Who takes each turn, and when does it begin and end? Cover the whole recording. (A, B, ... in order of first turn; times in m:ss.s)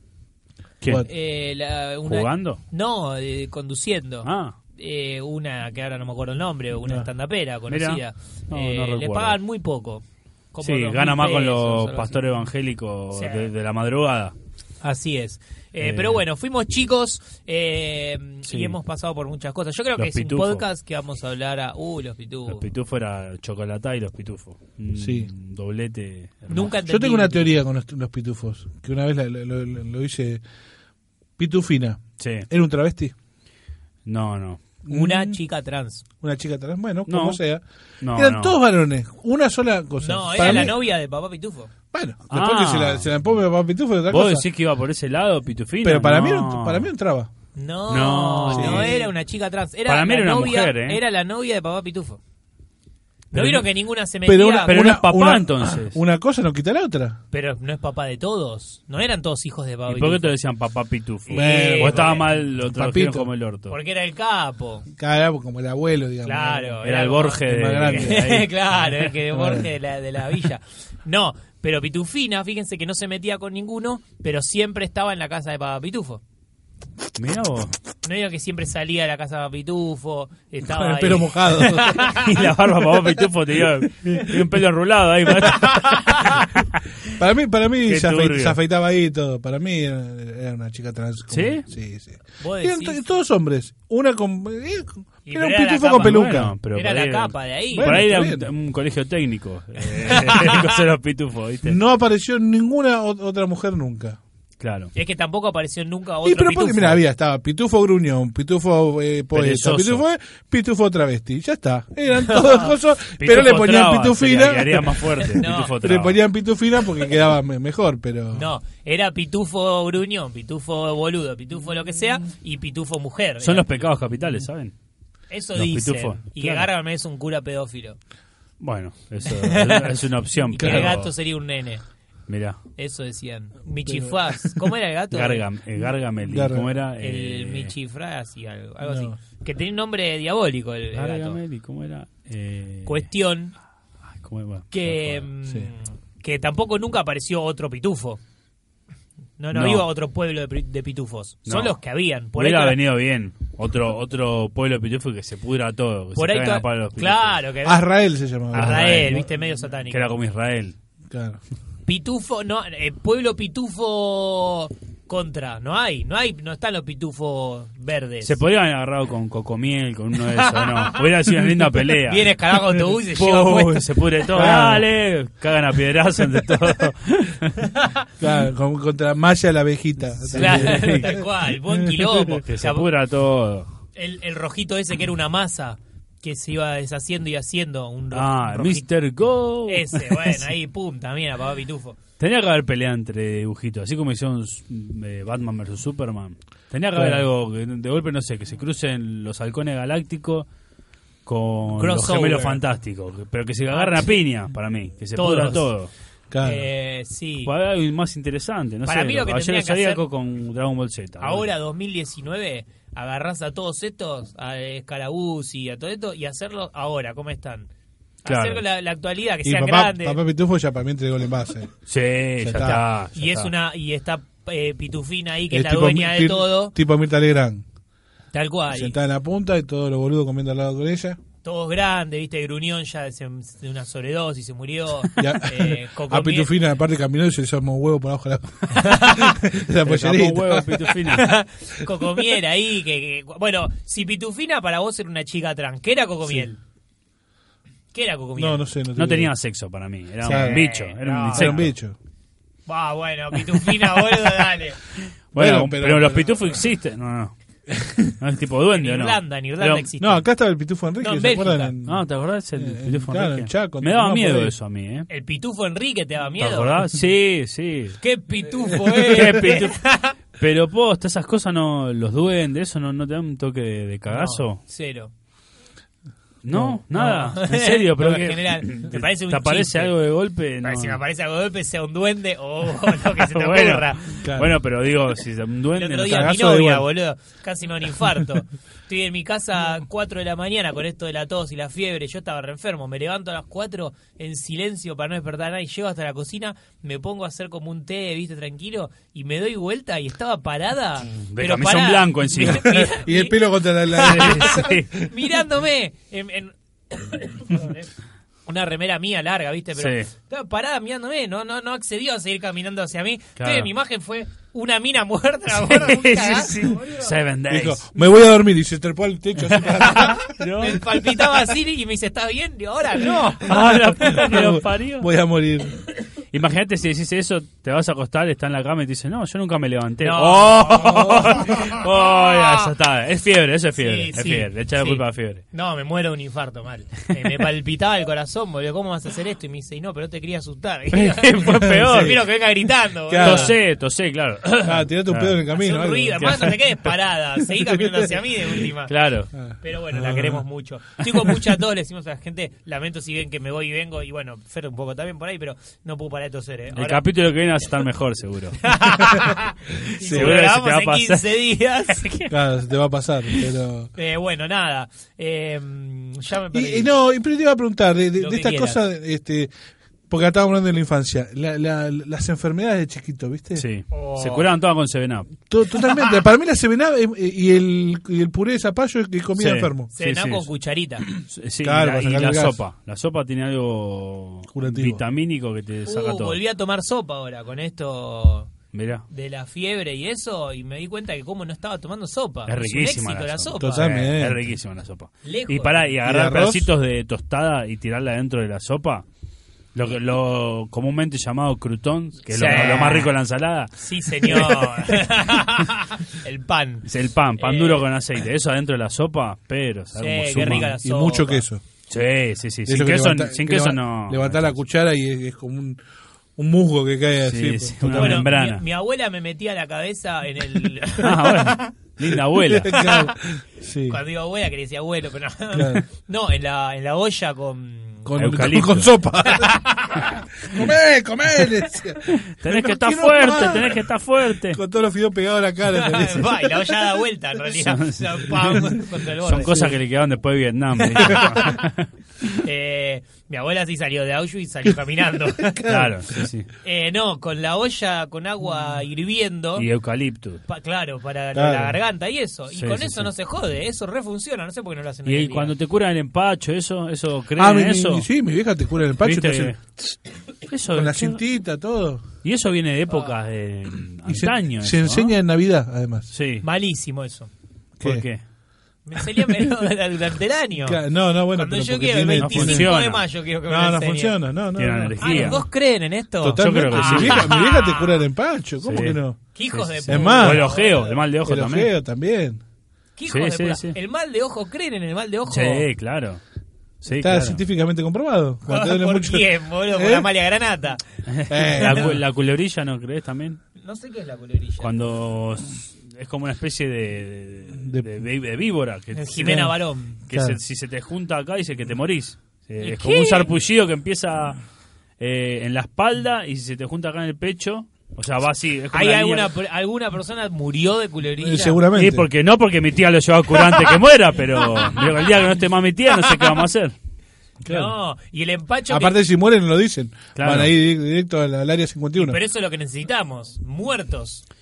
0:00.8-0:01.1 A
0:00.8-0:01.1 B
0:01.0-0:12.2 C
0:02.1-0:02.6 A
0:04.2-0:04.6 A
0:07.7-0:09.4 A
0:10.6-0:14.3 A
0:13.1-0:13.5 C
0:14.8-0:22.6 C
0:15.8-0:16.2 A
0:18.5-0:18.8 A
0:20.0-0:20.6 A
0:22.5-0:26.8 A
0:25.0-0:25.3 B
0:26.5-0:27.6 C
0:26.8-0:30.4 B
0:31.4-0:33.1 B
0:32.2-0:32.5 A
0:34.1-0:34.6 A
0:34.9-0:35.4 B
0:34.9-0:36.0 C
0:36.2-0:37.6 B
0:37.1-0:37.4 A
0:38.0-0:38.6 A
0:38.1-0:40.8 B
0:40.0-0:41.7 C
0:41.9-0:44.4 B
0:42.3-0:43.1 A
0:44.1-0:46.9 A
0:45.8-0:47.3 B
0:47.6-0:52.2 C
0:47.9-0:49.0 A
0:48.5-0:49.1 B
0:49.9-0:51.0 A
0:53.3-0:54.8 C
0:53.3-0:53.6 B
0:54.2-0:57.2 B
0:54.6-0:56.0 A
0:57.3-1:00.3 C
0:59.9-1:03.8 A
1:01.3-1:02.3 C
1:01.3-1:03.3 B
1:03.7-1:04.9 C
1:04.9-1:06.8 B
1:06.2-1:16.2 C
1:06.8-1:09.1 A
1:07.5-1:08.4 B
1:09.3-1:09.7 B
1:17.2-1:17.7 A
1:18.0-1:22.5 C
1:20.6-1:22.1 B
1:22.0-1:26.8 A
1:25.4-1:26.5 C
1:27.2-1:36.5 B
1:27.8-1:28.6 A
1:31.3-1:31.6 A
1:32.4-1:33.0 C
1:35.3-1:38.0 C
1:36.0-1:41.8 A
1:37.7-1:38.5 B
1:40.0-1:40.7 C
1:41.6-1:44.2 B
1:44.6-1:44.9 A
1:45.0-1:47.0 C
1:46.2-1:58.5 B
1:49.3-1:50.0 A
1:52.2-1:52.7 C
1:53.2-1:56.2 A
1:55.2-1:55.7 C
1:58.3-2:03.7 C
2:03.4-2:04.7 A
2:05.3-2:08.0 C
2:05.6-2:06.7 A
2:08.6-2:11.1 A
2:09.3-2:10.0 C
2:10.5-2:11.8 C
2:10.6-2:10.9 B
2:12.3-2:12.6 A
2:12.8-2:15.5 C
2:13.9-2:14.2 B
2:15.1-2:17.7 A
2:16.2-2:16.7 B
2:17.0-2:21.4 C
2:18.8-2:19.2 B
2:20.9-2:23.1 A
2:22.9-2:23.5 C
2:24.2-2:25.3 A
2:24.7-2:28.2 C
2:29.4-2:32.8 C
2:29.5-2:29.9 A
2:31.5-2:31.8 A
2:32.3-2:37.4 A
2:36.2-2:37.8 C
2:37.6-2:39.3 B
2:38.5-2:40.1 C
2:38.5-2:39.2 A
2:39.9-2:40.8 A
2:41.1-2:41.4 B
2:41.9-2:48.4 C
2:48.2-2:52.4 A
2:50.3-2:51.0 C
2:52.0-2:54.6 C
2:53.2-2:57.7 A
2:53.4-2:54.9 B
2:57.7-2:58.1 C
2:58.2-3:02.4 B
3:00.3-3:02.9 C
3:00.3-3:01.1 A
3:02.5-3:03.7 A
3:04.0-3:08.9 C
3:08.1-3:10.4 A
3:09.7-3:12.0 C
3:12.2-3:20.5 A
3:17.0-3:17.2 B
3:21.3-3:25.9 A
3:21.8-3:22.6 C
3:23.7-3:24.2 C
3:25.2-3:25.7 C
3:26.3-3:26.7 B
3:26.4-3:27.5 C
3:27.4-3:31.5 A
3:28.9-3:30.0 C
3:31.2-3:37.7 C
3:38.2-3:40.2 C
3:38.2-3:38.6 A
3:39.4-3:41.7 B
3:41.9-3:43.5 A
3:42.4-3:42.8 B
3:43.2-3:46.8 C
3:45.5-3:47.6 B
3:48.3-3:49.0 C
3:48.7-3:51.2 B
3:51.4-3:56.5 C
3:55.2-4:01.1 B
3:58.7-3:59.4 C
3:59.8-4:01.3 A
4:01.1-4:06.6 C
4:07.9-4:08.6 C
4:08.4-4:09.3 B
4:09.0-4:11.7 A
4:10.2-4:10.6 B
4:10.2-4:11.6 C
4:11.3-4:12.0 B
4:12.7-4:14.8 C
4:15.3-4:17.3 A
4:15.4-4:16.6 B
4:17.7-4:18.1 B
4:18.2-4:19.9 A
4:18.7-4:20.2 C
4:20.0-4:22.0 B
4:21.0-4:21.7 C
4:21.8-4:25.1 A
4:22.6-4:24.5 B
4:25.1-4:26.8 C
4:26.4-4:28.0 A
4:28.0-4:30.2 C
4:29.0-4:34.6 A
4:34.1-4:35.1 C
4:36.4-4:41.0 A
4:36.5-4:36.8 B
4:36.9-4:39.9 C
4:40.6-4:44.2 C
4:43.2-4:46.4 A
4:44.2-4:44.5 B
4:45.8-5:07.9 C
4:46.1-4:46.9 B
5:01.1-5:02.8 A
5:02.4-5:04.8 B
5:04.0-5:04.9 A
5:08.5-5:17.2 C
5:09.8-5:10.1 A
5:13.4-5:13.7 A
5:15.6-5:17.8 A
5:17.5-5:20.3 B
5:19.6-5:24.4 C
5:20.2-5:20.9 A
5:23.4-5:25.1 A
5:23.5-5:25.8 B
5:26.3-5:35.4 A
5:30.0-5:32.7 C
5:33.8-5:43.6 C
5:40.9-5:42.2 A
5:41.6-5:42.2 B
5:43.1-5:43.6 B
5:43.2-5:45.4 A
5:44.6-5:46.5 B
5:45.6-5:48.9 C
5:46.2-5:46.6 A
5:47.7-5:48.1 B
5:48.9-5:49.3 A
5:49.3-5:50.4 B
5:49.6-5:57.0 C
5:56.8-5:58.7 A
5:58.6-6:02.3 C
6:00.0-6:00.4 B
6:00.0-6:01.4 A
6:02.3-6:03.9 B
6:04.0-6:06.9 C
6:06.5-6:09.5 B
6:08.2-6:08.8 C
6:10.1-6:13.6 B
6:13.6-6:15.3 A
6:13.9-6:14.5 C
6:15.5-6:19.9 B
6:15.9-6:16.2 C
6:19.4-6:20.5 A
6:20.0-6:21.1 C
6:21.1-6:26.4 A
6:21.6-6:22.6 B
6:24.5-6:25.0 B
6:25.9-6:28.5 C
6:28.7-6:29.1 A
6:29.1-6:34.0 C
6:32.5-6:39.0 A
6:33.6-6:34.4 B
6:35.2-6:36.0 C
6:36.0-6:36.7 B
6:39.8-6:44.8 A
6:42.3-6:43.2 C
6:43.8-6:46.9 C
6:46.9-6:50.8 A
6:47.4-6:47.9 C
6:50.0-6:51.4 C
6:50.4-6:51.6 B
6:51.9-6:54.5 A
6:52.7-6:55.8 B
6:56.4-6:58.3 B
6:57.2-6:58.6 A
6:58.0-7:01.8 C
7:01.0-7:02.8 A
7:02.5-7:04.0 B
7:02.6-7:03.1 C
7:03.9-7:08.1 C
7:05.5-7:05.8 B
7:08.0-7:13.9 B
7:08.2-7:08.9 A
7:09.2-7:10.2 C
7:12.1-7:14.6 A
7:14.4-7:16.8 B
7:15.7-7:19.8 C
7:17.5-7:18.7 A
7:19.2-7:22.4 A
7:19.4-7:19.7 B
7:20.8-7:21.6 C
7:22.4-7:25.7 C
7:25.5-7:26.0 B
7:25.7-7:26.5 A
7:26.6-7:29.7 C
7:29.6-7:30.4 A
7:30.5-7:35.5 C
7:31.3-7:31.8 B
7:32.5-7:33.1 A
7:35.1-7:38.1 A
7:37.4-7:39.5 B
7:39.0-7:39.6 A
7:40.5-7:41.2 A
7:40.7-7:42.0 B
7:42.2-7:45.2 A
7:44.1-7:46.1 B
7:46.1-7:46.5 A
7:46.4-7:47.3 C
7:47.8-7:48.0 B
7:47.8-7:48.2 A
7:48.8-7:50.8 C
7:50.6-7:52.8 B
7:51.3-7:54.2 C
7:52.2-7:53.0 A
7:53.5-7:55.5 B
7:54.6-7:55.4 A
7:55.0-7:58.0 C
7:56.2-7:59.2 B
7:56.4-7:57.3 A
7:58.6-8:01.7 A
7:59.3-8:01.0 C
7:59.9-8:00.5 B
8:01.2-8:02.4 B
8:03.0-8:05.7 C
8:03.1-8:03.8 A
8:05.3-8:06.2 A
8:06.8-8:07.4 A
8:06.9-8:10.1 B
8:08.5-8:10.8 C
8:11.1-8:13.4 A
8:11.3-8:12.0 B
8:11.5-8:11.9 C
8:13.6-8:14.8 C
8:14.6-8:24.4 A
8:17.6-8:17.9 B
8:18.9-8:20.0 C
8:19.2-8:19.6 B
8:20.1-8:20.4 B
8:22.6-8:23.3 C
8:25.0-8:29.3 A
8:28.7-8:31.6 C
8:31.2-8:32.1 B
8:31.7-8:36.8 A
8:34.4-8:34.8 C
8:36.0-8:36.3 C
8:37.4-8:37.7 B
8:37.5-8:39.0 C
8:38.7-8:42.2 B
8:40.2-8:40.5 A
8:42.0-8:44.2 C